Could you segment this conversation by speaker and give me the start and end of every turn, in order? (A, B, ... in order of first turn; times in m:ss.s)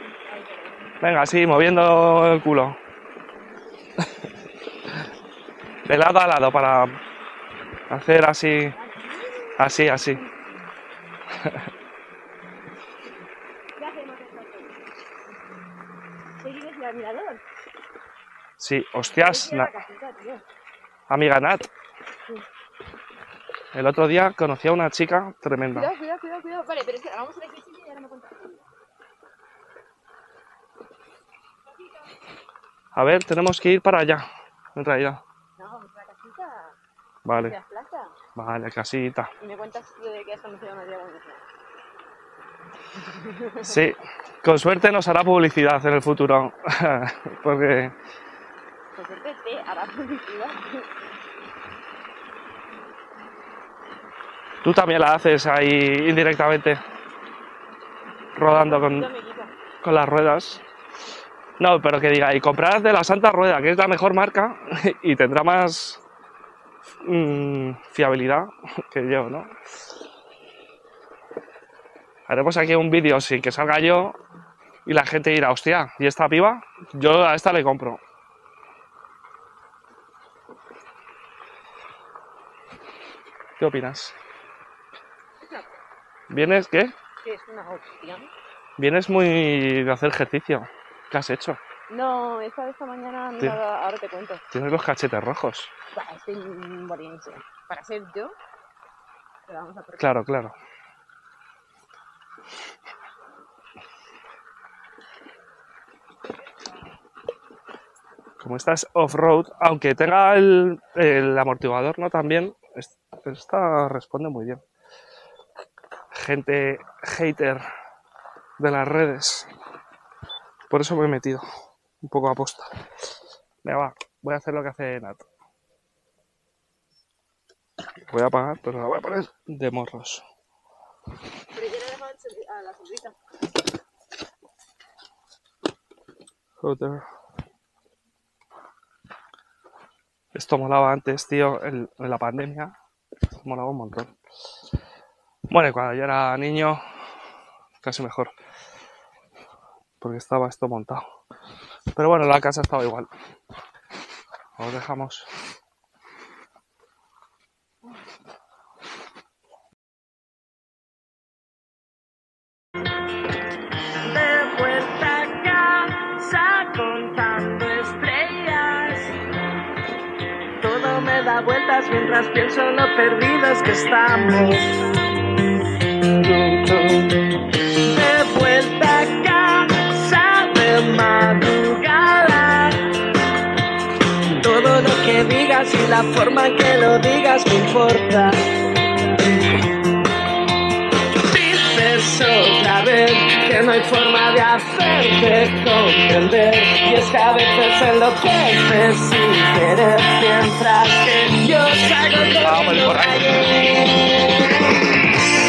0:00.3-0:00.7 A
0:01.0-0:02.8 B
0:05.8-0:07.0 B
0:07.9-0:08.8 B
0:08.8-0:09.6 A
0:09.6-0:10.2 B
0:13.8-0:14.8 A
0:16.4-0:17.4 A
0:18.6-0:19.7 B
0:19.0-0:20.4 A
0:21.1-0:21.7 B
0:23.7-0:25.9 B
0:25.7-0:28.7 A
0:33.0-0:34.2 B
0:34.8-0:35.2 B
0:35.6-0:36.8 A
0:37.2-0:37.6 B
0:37.4-0:38.2 A
0:38.4-0:39.3 B
0:39.4-0:41.4 A
0:43.1-0:43.7 A
0:43.6-0:48.0 B
0:49.0-0:50.9 A
0:54.6-0:56.8 B
0:58.4-0:59.1 B
0:58.5-0:59.5 A
0:59.8-1:00.6 B
1:01.6-1:06.0 B
1:07.0-1:09.5 B
1:12.3-1:14.2 B
1:14.9-1:18.0 B
1:23.6-1:24.2 B
1:25.4-1:25.7 A
1:26.3-1:26.9 B
1:27.2-1:28.3 A
1:28.8-1:31.6 B
1:31.9-1:34.4 A
1:34.5-1:35.7 B
1:35.9-1:38.4 A
1:39.5-1:40.1 A
1:40.0-1:40.6 B
1:48.4-1:54.6 B
1:56.1-1:57.6 B
1:58.6-1:59.5 B
2:00.7-2:01.4 B
2:02.0-2:02.7 B
2:03.6-2:05.2 B
2:08.1-2:10.2 B
2:11.5-2:13.2 A
2:16.6-2:17.0 B
2:20.3-2:22.7 B
2:23.4-2:24.1 B
2:25.5-2:26.8 B
2:27.8-2:28.3 B
2:30.0-2:31.0 B
2:31.9-2:33.1 B
2:34.6-2:35.3 B
2:44.0-2:49.2 C
2:50.6-2:54.8 C
2:57.8-3:02.9 C
3:04.3-3:08.5 C
3:11.2-3:24.8 C
3:22.4-3:23.4 B